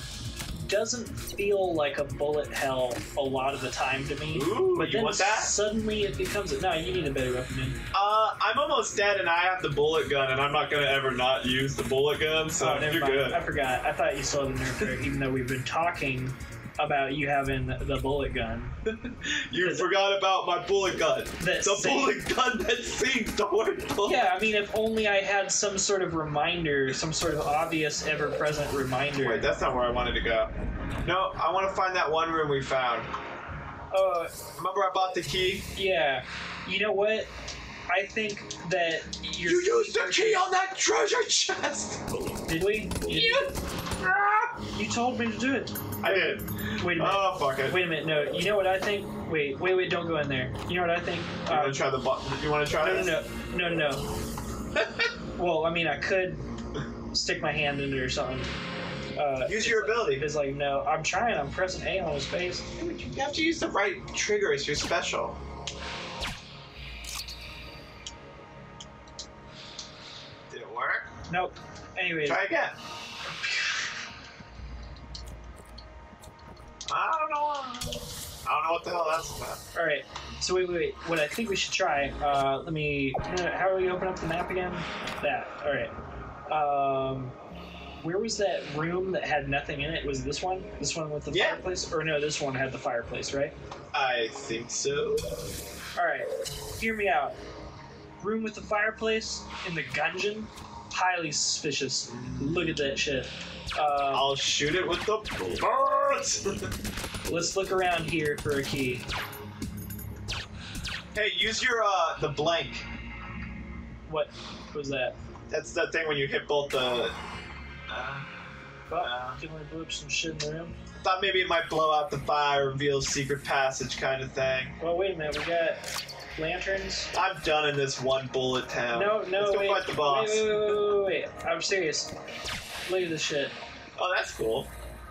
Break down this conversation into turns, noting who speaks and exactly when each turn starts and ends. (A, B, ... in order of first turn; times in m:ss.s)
0:00.5-0:07.8 A
0:04.3-0:05.5 B
0:07.9-0:13.4 B
0:12.6-0:18.8 A
0:18.9-0:24.3 B
0:19.6-0:19.9 A
0:21.4-0:22.2 A
0:24.0-0:29.5 A
0:29.2-0:30.5 B
0:31.0-0:33.1 B
0:33.9-0:34.4 A
0:34.6-0:35.7 B
0:35.7-0:37.3 A
0:37.9-0:40.4 A
0:39.4-0:42.0 B
0:42.5-0:43.5 A
0:43.0-0:44.5 B
0:44.6-0:45.8 A
0:46.0-0:47.8 B
0:46.8-0:51.8 A
0:51.4-0:53.2 B
0:52.8-0:54.0 A
0:55.4-0:56.4 A
0:57.1-0:58.5 A
0:59.2-1:02.6 A
0:59.4-1:00.2 B
1:02.8-1:05.4 B
1:10.5-1:11.1 B
1:11.3-1:12.4 A
1:12.2-1:12.8 B
1:13.4-1:13.8 A
1:16.9-1:19.6 B
1:19.7-1:25.9 A
1:26.5-1:27.4 A
1:28.0-1:33.5 A
1:31.3-1:31.6 B
1:33.9-1:35.3 B
1:35.9-1:37.4 A
1:38.2-1:44.3 A
1:42.2-1:42.5 B
1:44.1-1:46.7 B
1:47.3-1:49.0 A
1:51.1-1:52.8 B
1:54.1-1:55.1 A
1:55.5-1:57.1 B
1:57.9-1:58.3 B
1:58.9-2:00.7 A
1:59.0-1:59.4 B
2:01.0-2:04.7 B
2:04.8-2:05.8 A
2:06.4-2:07.1 A
2:07.1-2:10.7 B
2:08.9-2:12.1 A
2:12.8-2:13.5 A
2:14.0-2:14.7 B